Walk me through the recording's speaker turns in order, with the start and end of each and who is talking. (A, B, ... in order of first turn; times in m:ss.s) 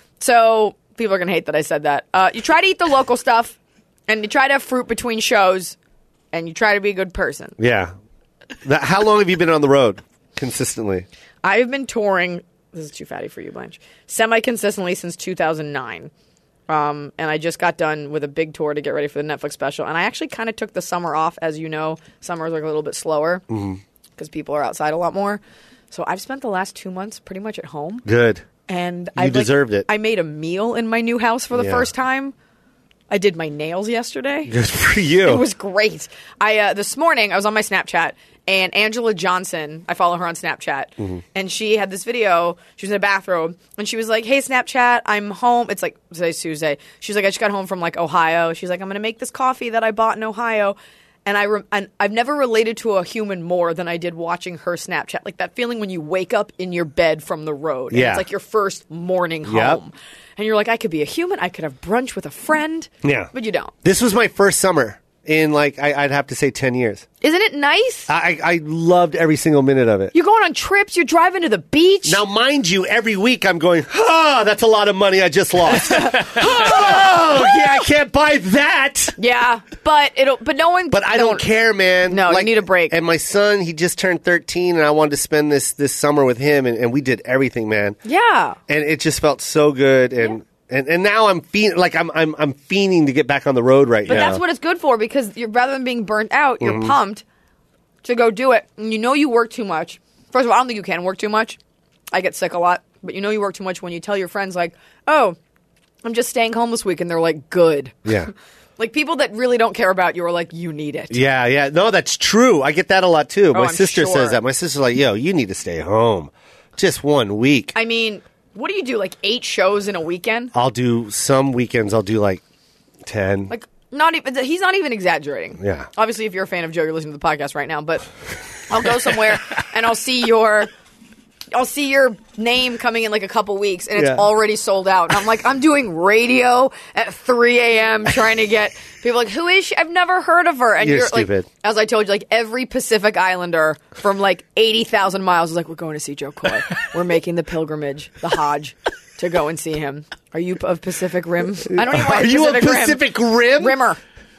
0:00.2-0:03.6 A
0:04.1-0:05.8 A
0:06.3-0:07.6 A
0:07.6-0:07.9 B
0:08.6-0:11.0 B
0:11.4-0:16.1 A
0:16.7-0:23.4 A
0:23.5-0:23.8 B
0:24.2-0:28.0 A
0:28.0-0:28.4 B
0:28.7-0:32.3 A
0:29.2-0:29.9 B
0:31.5-0:31.9 B
0:33.1-0:34.5 A
0:34.5-0:35.4 B
0:35.2-1:03.7 A
0:57.9-0:58.2 B
0:59.4-0:59.8 B
1:03.0-1:03.3 B
1:03.8-1:07.0 B
1:07.2-1:08.1 A
1:08.1-1:10.1 B
1:10.1-1:12.2 A
1:12.0-1:19.2 B
1:15.7-1:17.8 A
1:19.2-1:21.4 A
1:20.9-1:28.0 B
1:22.1-1:23.0 A
1:28.0-1:28.6 A
1:28.7-1:34.4 B
1:34.0-1:37.2 A
1:36.6-1:36.9 B
1:38.0-1:41.6 A
1:42.1-1:45.4 A
1:46.0-1:48.1 A
1:48.0-1:48.3 B
1:48.8-1:51.2 A
1:51.1-1:57.7 B
1:53.5-1:54.4 A
1:57.7-2:00.5 A
2:00.5-2:02.4 B
2:03.0-2:03.5 B
2:03.5-2:08.0 A
2:05.6-2:05.9 B
2:08.7-2:10.7 A
2:11.5-2:34.0 A
2:14.0-2:14.3 B
2:20.8-2:21.5 B
2:31.6-2:33.8 B